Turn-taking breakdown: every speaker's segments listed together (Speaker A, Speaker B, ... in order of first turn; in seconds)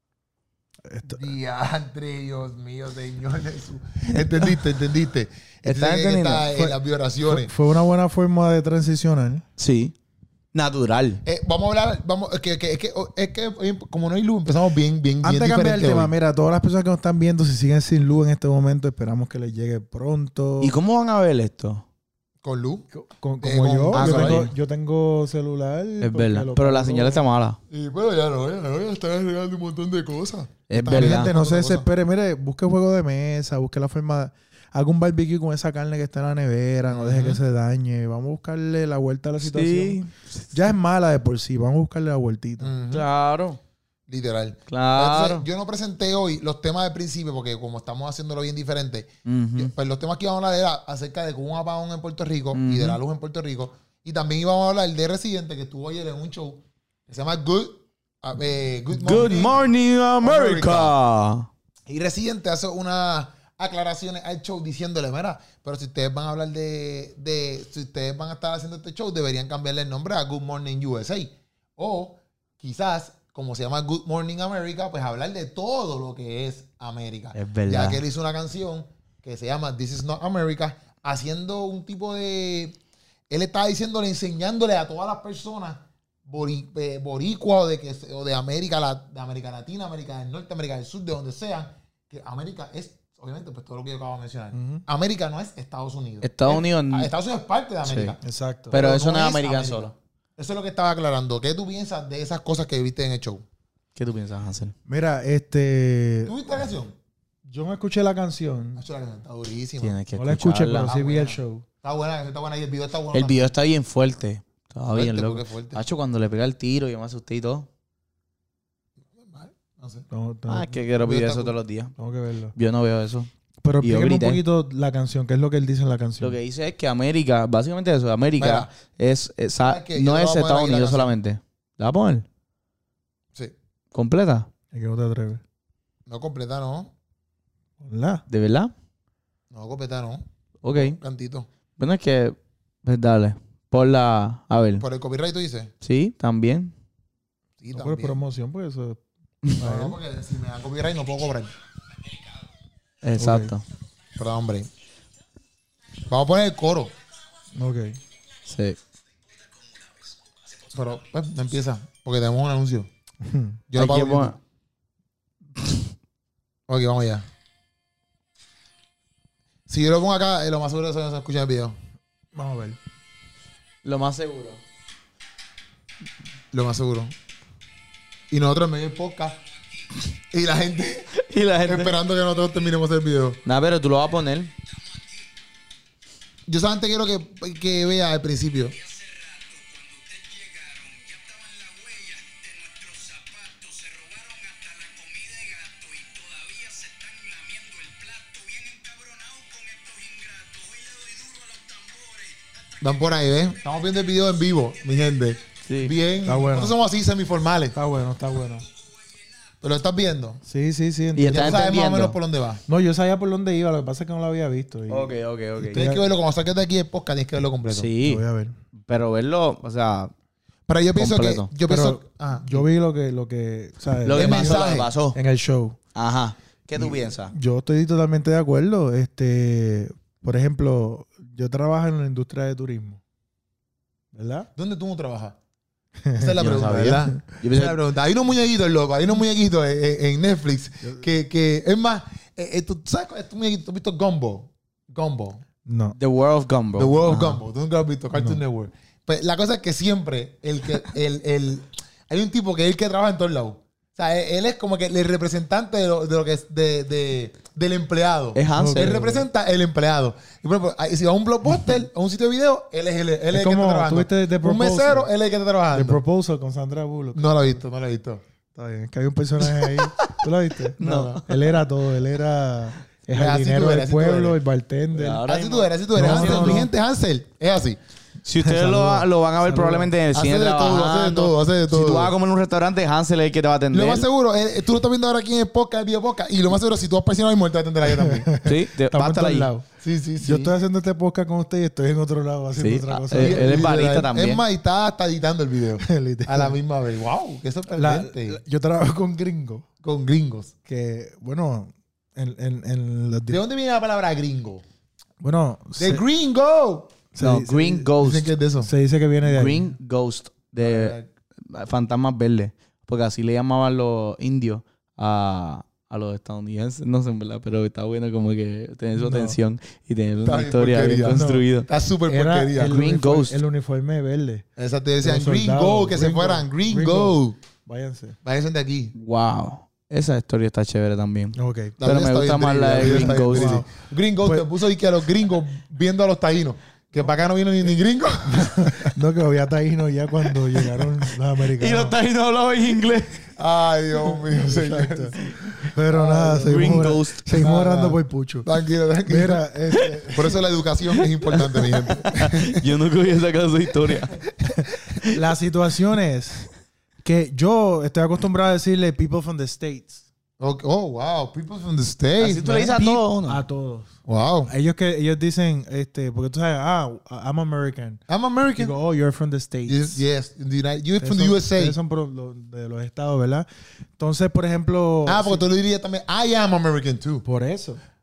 Speaker A: 0.9-1.2, 6.5-9.4, 15.2-20.7, 22.9-27.2, 30.9-42.7, 94.5-94.8, 98.2-98.8, 104.9-106.3, 107.5-108.8, 110.1-111.7, 120.1-120.8, 122.0-122.5, 123.6-126.4, 134.7-135.4, 137.8-138.2, 147.7-149.0, 149.5-150.0, 153.2-153.5, 157.6-158.0, 163.2-163.6, 172.3-172.8, 206.2-206.8, 207.7-208.7, 210.5-211.7, 212.7-216.0, 218.1-218.6, 221.7-225.8, 226.8-233.0, 234.1-234.5, 236.1-236.6, 245.7-246.0, 248.2-248.4, 258.5-259.3, 263.3-265.1, 265.7-267.6, 268.5-275.2, 275.9-276.7, 278.4-279.9, 287.9-289.7, 290.2-293.6, 295.8-296.6, 297.7-299.7, 300.7-303.4, 305.2-306.0, 307.1-307.9, 308.6-309.7, 318.9-319.4, 321.1-321.5, 322.1-324.4, 325.0-328.2, 331.4-331.8, 332.8-333.7, 338.3-342.0, 344.3-348.5, 349.1-350.4, 354.6-356.5, 357.0-360.0, 362.4-368.0, 368.6-370.0, 371.0-373.5, 374.0-375.4, 377.2-377.8
Speaker B: 1.1-7.5, 11.2-16.1, 22.4-22.9, 23.4-24.5, 27.7-31.9, 36.9-37.4, 42.6-43.1, 44.1-59.6, 60.2-60.9, 61.9-82.8, 83.3-98.2, 98.7-103.4, 106.3-107.0, 108.8-110.0, 110.8-113.4, 114.9-115.8, 119.2-120.1, 121.0-121.5, 128.4-128.7, 129.7-131.1, 136.1-136.9, 139.5-141.5, 144.8-145.7, 147.6-148.2, 149.6-151.5, 154.2-154.7, 156.1-156.9, 160.7-162.9, 163.7-164.3, 166.7-167.3, 169.7-171.8, 176.5-177.1, 178.3-179.4, 180.3-181.1, 181.6-183.4, 186.5-188.8, 202.8-207.8, 209.6-210.4, 211.3-212.6, 215.6-217.9, 220.7-222.7, 224.1-224.9, 234.6-235.4, 236.2-245.4, 246.8-266.0, 267.1-268.2, 270.8-271.2, 273.1-274.4, 275.2-277.8, 280.1-282.1, 283.7-288.3, 289.8-290.5, 293.2-298.4, 299.8-300.5, 303.3-304.6, 305.8-306.9, 308.0-308.7, 310.6-311.1, 320.2-322.8, 324.6-327.4, 328.2-328.9, 331.8-338.9, 343.4-349.4, 350.1-352.6, 360.4-362.9, 364.1-364.5, 368.1-368.7, 369.7-371.8, 375.1-377.2
Speaker C: 5.6-6.5, 9.6-9.9, 10.5-11.2, 20.6-21.8, 23.9-24.5, 26.0-27.6, 30.7-31.3, 39.4-40.5, 42.9-43.6, 44.7-45.5, 49.2-49.7, 52.5-53.0, 59.0-61.5, 77.3-78.0, 96.2-97.1, 97.8-98.1, 98.7-99.9, 104.0-104.7, 109.8-110.9, 113.1-117.7, 120.5-122.0, 122.6-123.3, 123.8-124.4, 126.2-132.2, 133.9-134.5, 138.3-138.7, 140.6-141.0, 141.8-144.8, 145.8-146.7, 153.0-153.6, 158.5-158.8, 163.8-164.4, 173.8-174.6, 181.2-181.9, 183.5-184.5, 188.9-202.4, 205.7-205.9, 211.2-212.2, 214.9-215.9, 217.7-218.2, 218.9-220.1, 221.0-221.5, 224.0-225.2, 225.9-227.3, 236.4-237.8, 246.0-247.4, 258.4-259.0, 270.8-271.4, 274.9-276.7, 278.2-284.1, 288.4-289.5, 292.6-294.4, 307.2-308.3, 309.2-321.7, 322.6-323.4, 328.9-333.6, 341.6-343.2, 346.4-347.5, 350.9-354.2, 362.2-363.4